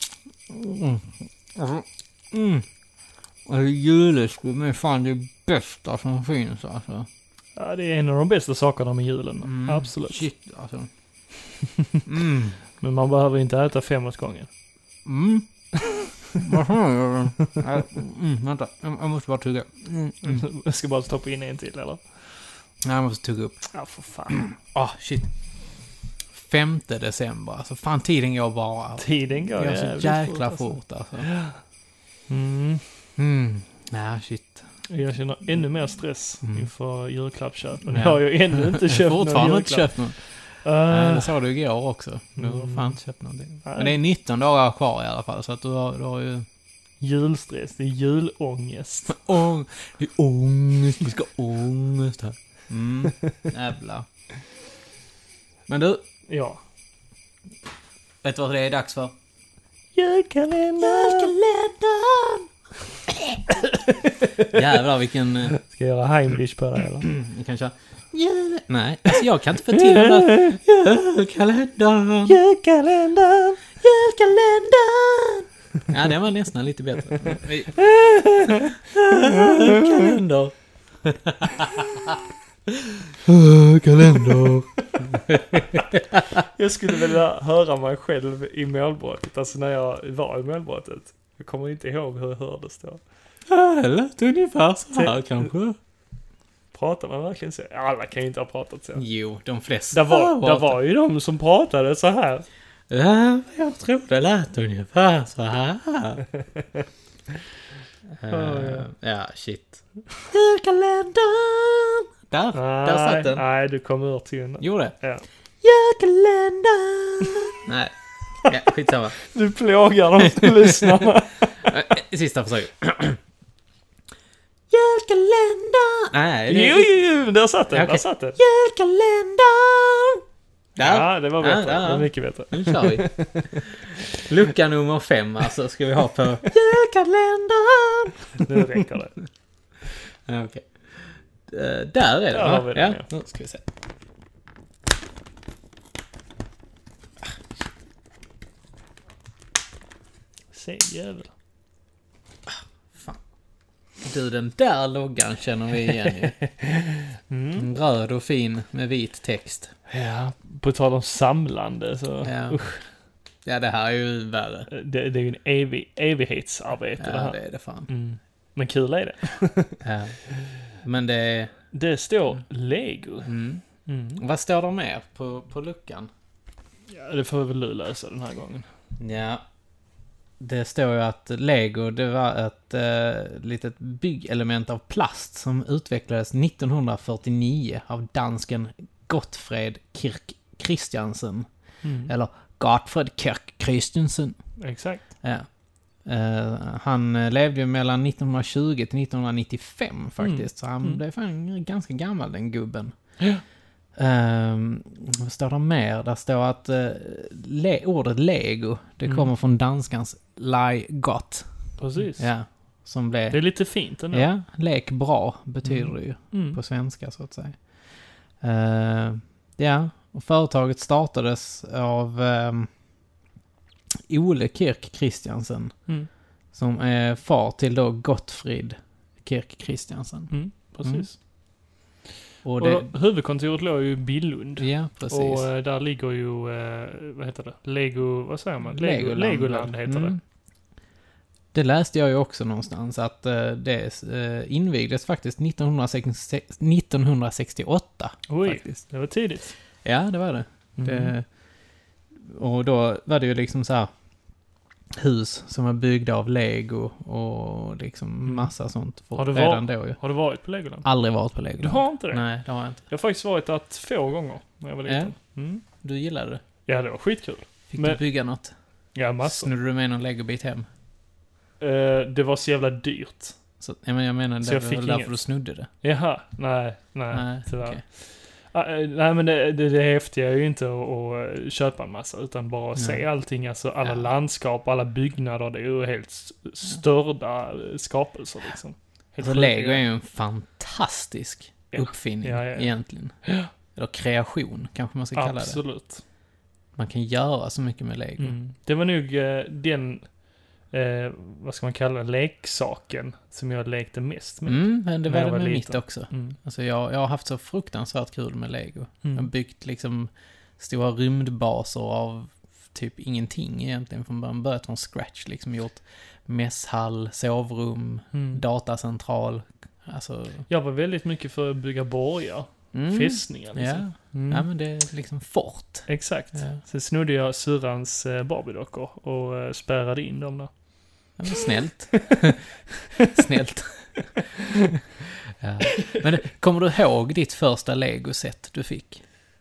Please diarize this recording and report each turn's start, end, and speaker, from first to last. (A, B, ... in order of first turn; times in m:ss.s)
0:00.5-0:02.7 A
0:03.5-0:07.1 A
0:07.6-0:10.3 B
0:09.4-0:10.9 A
0:12.1-0:12.6 A
0:12.8-0:14.5 B
0:15.0-0:15.5 A
0:15.9-0:16.4 B
0:16.4-0:20.4 A
0:20.2-0:22.6 B
0:22.8-0:23.7 A
0:23.7-0:24.5 B
0:24.4-0:25.3 A
0:26.3-0:31.3 A
0:29.0-0:31.6 B
0:32.3-0:33.0 B
0:33.2-0:34.6 A
0:34.9-0:41.4 B
0:36.4-0:36.7 A
0:37.9-0:46.5 A
0:42.4-0:43.1 B
0:43.6-0:44.0 B
0:47.0-0:49.2 B
0:49.1-0:54.1 A
0:55.7-0:56.0 A
0:56.3-0:56.6 B
0:58.2-0:59.2 A
1:00.0-1:01.3 B
1:00.8-1:02.5 A
1:03.1-1:03.4 A
1:03.6-1:04.7 B
1:04.5-1:05.5 A
1:05.5-1:07.1 B
1:07.0-1:12.4 A
1:09.7-1:10.6 B
1:12.3-1:13.6 B
1:13.8-1:17.9 A
1:17.1-1:20.1 B
1:19.0-1:22.2 A
1:22.7-1:26.3 A
1:25.5-1:25.9 B
1:26.5-1:33.0 B
1:33.5-1:35.8 A
1:34.9-1:35.2 B
1:36.7-1:39.0 B
1:39.0-1:40.8 A
1:39.9-1:42.5 B
1:42.9-1:46.2 A
1:48.2-1:53.4 A
1:48.3-1:48.9 B
1:52.5-1:55.2 B
1:54.6-1:55.0 A
1:55.6-1:59.2 A
1:59.2-2:01.8 B
2:00.3-2:00.9 A
2:01.6-2:03.2 A
2:04.7-2:06.9 A
2:06.5-2:08.4 B
2:07.7-2:10.2 A
2:10.8-2:13.6 A
2:10.8-2:14.3 B
2:14.2-2:18.6 A
2:18.4-2:19.2 B
2:20.3-2:23.6 A
2:22.3-2:23.1 B
2:30.5-2:31.3 B
2:32.5-2:33.2 A
2:34.0-2:36.4 A
2:37.3-2:37.7 B
2:37.6-2:39.7 A
2:39.9-2:42.9 B
2:42.2-2:42.6 A
2:43.4-2:44.7 A
2:44.7-2:49.8 B
2:47.0-2:47.9 A
2:49.8-2:50.2 A
2:50.8-2:51.6 A
2:51.7-2:53.3 B
2:53.2-2:53.6 A
2:53.9-2:54.2 B
2:54.2-2:56.1 A
2:56.9-2:58.7 B
2:59.0-2:59.4 A
3:00.4-3:11.5 A
3:11.8-3:12.1 B
3:12.1-3:14.4 A
3:14.6-3:15.1 B
3:15.2-3:15.5 A
3:16.0-3:22.9 A
3:20.2-3:21.0 B
3:24.0-3:31.5 A
3:29.0-3:29.3 B
3:31.8-3:32.3 B
3:32.0-3:37.6 A
3:33.3-3:34.3 B
3:35.6-3:36.6 B
3:38.4-3:42.7 A
3:44.1-3:45.8 A
3:46.5-3:51.1 A
3:50.3-3:51.2 B
3:52.4-3:52.9 A
3:52.6-4:00.2 B
3:54.6-3:55.5 A
3:58.7-4:00.2 A
4:01.5-4:08.8 A
4:08.3-4:09.6 B
4:09.8-4:11.2 A
4:10.8-4:11.2 B
4:12.2-4:13.9 A
4:14.9-4:20.0 A
4:18.2-4:18.5 B
4:19.2-4:20.9 B
4:20.8-4:22.8 A
4:21.6-4:22.3 B
4:22.9-4:25.6 B
4:24.9-4:26.4 A
4:26.7-4:28.0 B
4:27.7-4:28.5 A
4:28.9-4:29.5 B
4:29.2-4:30.7 A
4:31.6-4:33.4 B
4:33.6-4:35.7 A
4:34.4-4:35.2 B
4:35.8-4:49.8 B
4:37.1-4:37.8 A
4:42.8-4:43.0 A
4:43.8-4:44.1 A
4:49.2-4:53.2 A
4:51.7-4:53.5 B
4:53.7-4:55.6 A
4:55.2-4:56.0 B
4:56.8-4:58.4 A
4:58.2-5:06.4 B
5:04.5-5:20.4 A
5:09.0-5:09.3 B
5:18.1-5:18.4 B
5:20.5-5:24.5 B
5:22.7-5:26.6 A
5:25.9-5:30.5 B
5:31.2-5:32.5 A
5:33.1-5:33.9 A
5:35.3-5:39.0 A